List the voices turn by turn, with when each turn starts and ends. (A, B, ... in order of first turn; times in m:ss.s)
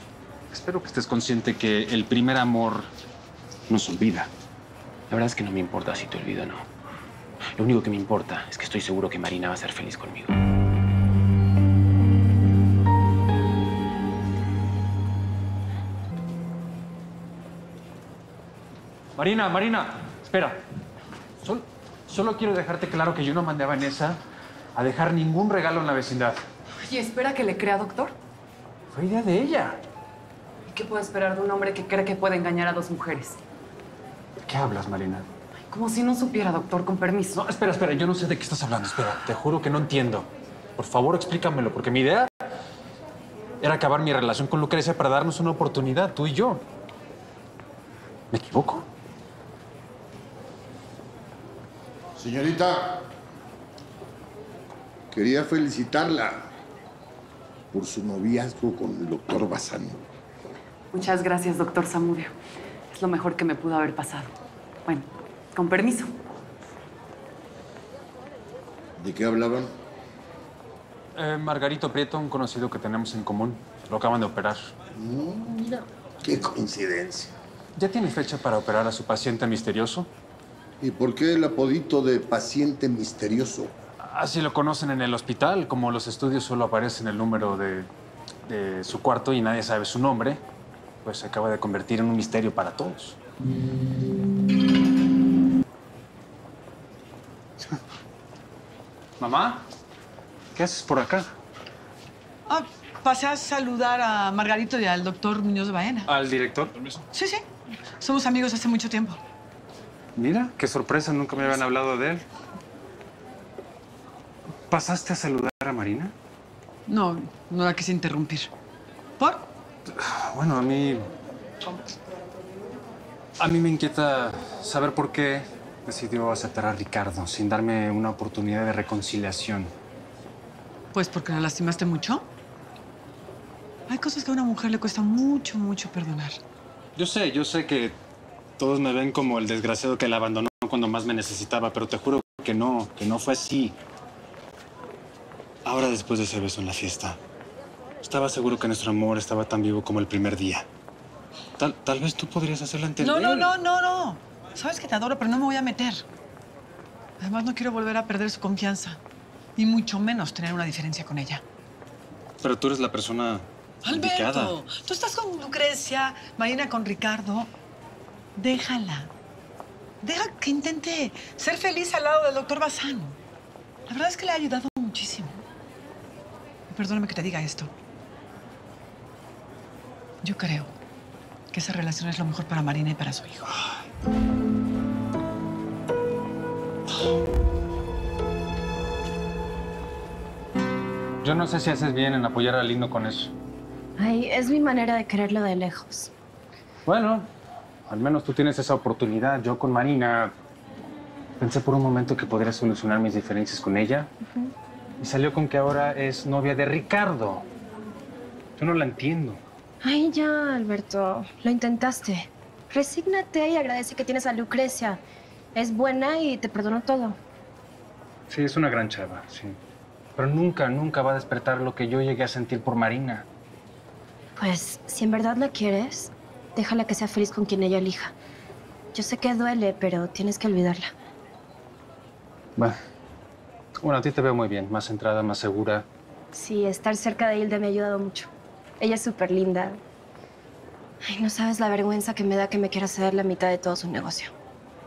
0:00.5-0:02.9 A
0:03.7-0:04.3 A
0:05.1-0:06.6 B
0:05.4-0:05.7 A
0:07.6-0:10.3 B
0:07.8-0:08.6 A
0:19.2-0:20.6 A
0:21.4-0:24.2 A
0:24.8-0:26.4 A
0:26.8-0:28.1 C
0:28.9-0:29.8 A
0:30.7-0:33.4 C
0:34.4-0:35.2 A
0:35.7-0:37.4 C
0:37.3-0:42.3 A
0:43.6-0:46.6 A
0:48.3-0:48.8 A
0:52.2-0:53.0 D
0:55.1-0:56.4 D
0:57.7-1:00.0 D
1:00.9-1:02.3 C
1:02.9-1:04.3 C
1:04.8-1:06.1 C
1:09.0-1:09.7 D
1:11.1-1:14.7 A
1:15.0-1:17.3 D
1:17.8-1:20.1 A
1:20.8-1:23.7 D
1:24.0-1:27.9 A
1:28.4-1:30.4 A
1:31.0-1:33.2 A
1:39.2-1:39.6 A
1:40.5-1:41.3 A
1:42.5-1:46.1 E
1:46.1-1:46.8 A
1:47.1-1:47.4 E
1:48.0-1:49.2 E
1:50.2-1:52.2 A
1:54.7-1:56.1 A
1:56.9-1:58.5 E
1:59.2-1:59.4 E
1:59.9-2:01.1 A
2:03.4-2:09.7 A
2:10.9-2:12.2 E
2:13.9-2:16.4 E
2:17.0-2:18.0 A
2:18.6-2:23.8 A
2:25.6-2:27.2 A
2:28.0-2:30.6 A
2:31.6-2:33.5 A
2:33.0-2:36.0 E
2:37.2-2:39.0 E
2:39.6-2:41.4 E
2:42.4-2:44.6 A
2:43.8-2:47.5 E
2:48.4-2:49.1 E
2:50.0-2:53.2 E
2:53.9-2:55.3 E
2:56.7-2:57.7 E
3:00.2-3:00.7 E
3:01.5-3:03.5 E
3:11.2-3:13.3 A
3:14.0-3:16.1 F
3:16.8-3:17.3 A
3:17.9-3:20.3 A
3:21.4-3:24.1 A
3:25.0-3:27.4 A
3:28.6-3:29.4 A
3:29.8-3:35.0 F
3:35.5-3:37.2 F
3:38.3-3:39.6 A
3:40.2-3:43.3 A
3:44.4-3:48.1 F
3:48.9-3:50.9 F
3:53.8-3:55.8 A
3:56.3-3:58.3 F
3:58.8-3:59.8 F
4:01.0-4:04.3 F